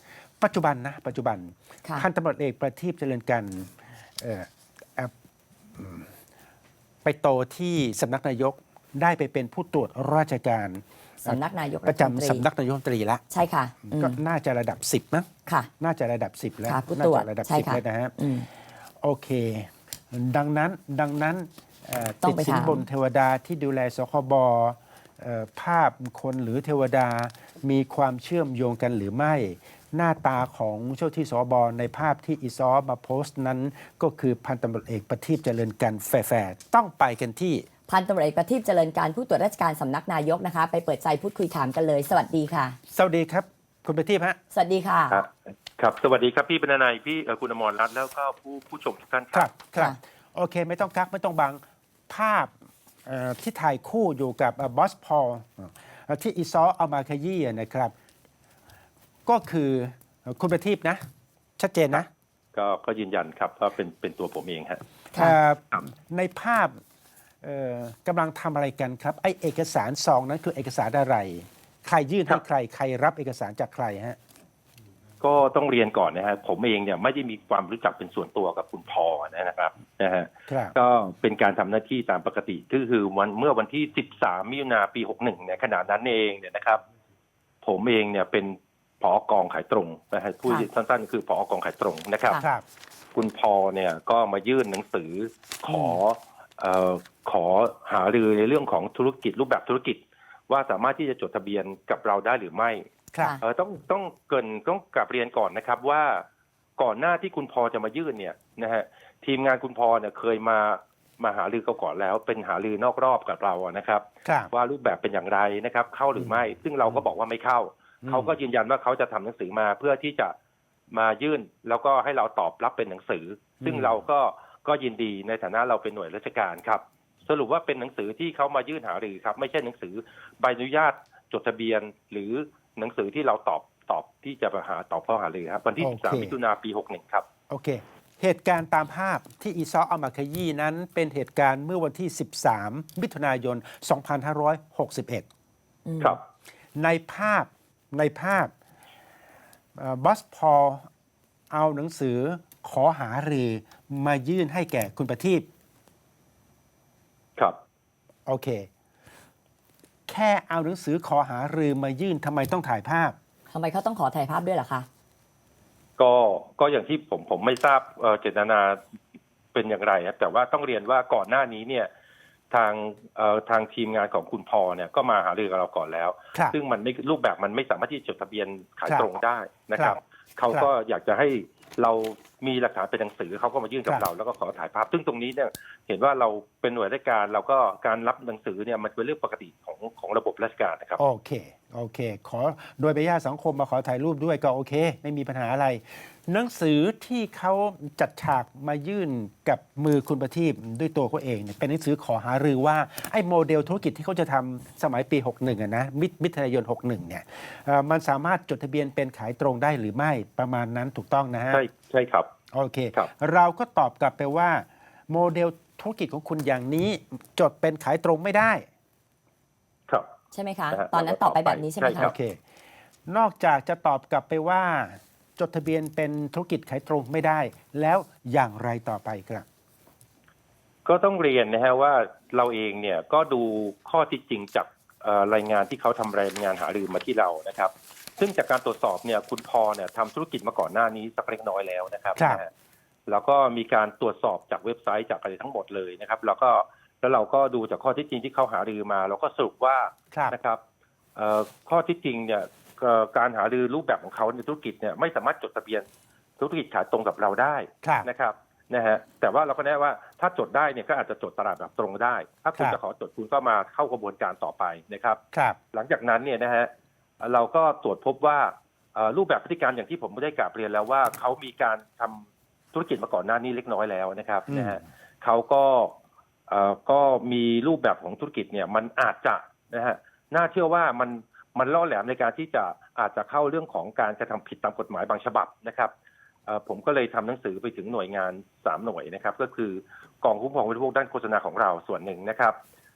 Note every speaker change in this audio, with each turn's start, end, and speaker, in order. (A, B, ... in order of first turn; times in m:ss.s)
0:00.4-0:05.1 A
0:05.8-0:06.1 A
0:07.0-0:13.2 A
0:11.2-0:12.4 B
0:13.3-0:14.2 B
0:13.9-0:18.2 A
0:16.7-0:18.5 B
0:19.0-0:37.7 A
0:22.2-0:22.8 B
0:37.9-0:42.8 B
0:42.9-0:44.4 A
0:44.5-0:45.2 B
0:45.1-0:49.6 C
0:49.3-0:52.5 A
0:53.1-0:57.9 A
0:59.3-1:01.0 A
1:01.6-1:02.1 A
1:02.6-1:04.8 C
1:05.2-1:06.8 A
1:07.4-1:14.2 A
1:15.2-1:26.8 C
1:20.5-1:20.8 A
1:27.6-1:32.4 C
1:32.4-1:32.6 A
1:33.2-1:42.9 C
1:35.7-1:36.0 B
1:43.4-1:46.2 C
1:46.8-2:00.4 C
1:54.2-1:54.5 A
1:58.0-1:58.4 A
2:00.9-2:17.3 C
2:03.6-2:04.0 A
2:15.8-2:16.4 A
2:17.5-2:25.3 A
2:25.9-2:26.2 B
2:26.8-2:28.5 A
2:29.8-2:30.9 A
2:31.5-2:35.5 A
2:38.3-2:38.7 A
2:40.1-2:43.2 A
2:43.5-2:44.9 B
2:46.0-2:48.8 C
2:49.5-2:51.9 C
2:52.5-3:11.0 C
2:59.8-3:00.7 A
3:11.0-3:31.6 A
3:31.5-3:32.3 C
3:32.5-3:38.7 A
3:40.3-3:42.1 B
3:40.7-3:42.1 C
3:42.0-3:42.4 A
3:43.1-3:49.5 A
3:50.9-4:02.5 C
4:02.2-4:02.4 A
4:03.1-4:10.6 C
4:11.2-4:15.9 C
4:16.4-4:25.2 C
4:17.8-4:18.1 A
4:25.3-4:25.6 A
4:25.7-4:26.7 C
4:27.2-4:36.0 C
4:34.5-4:34.8 A
4:36.5-4:45.9 C
4:46.5-4:52.6 C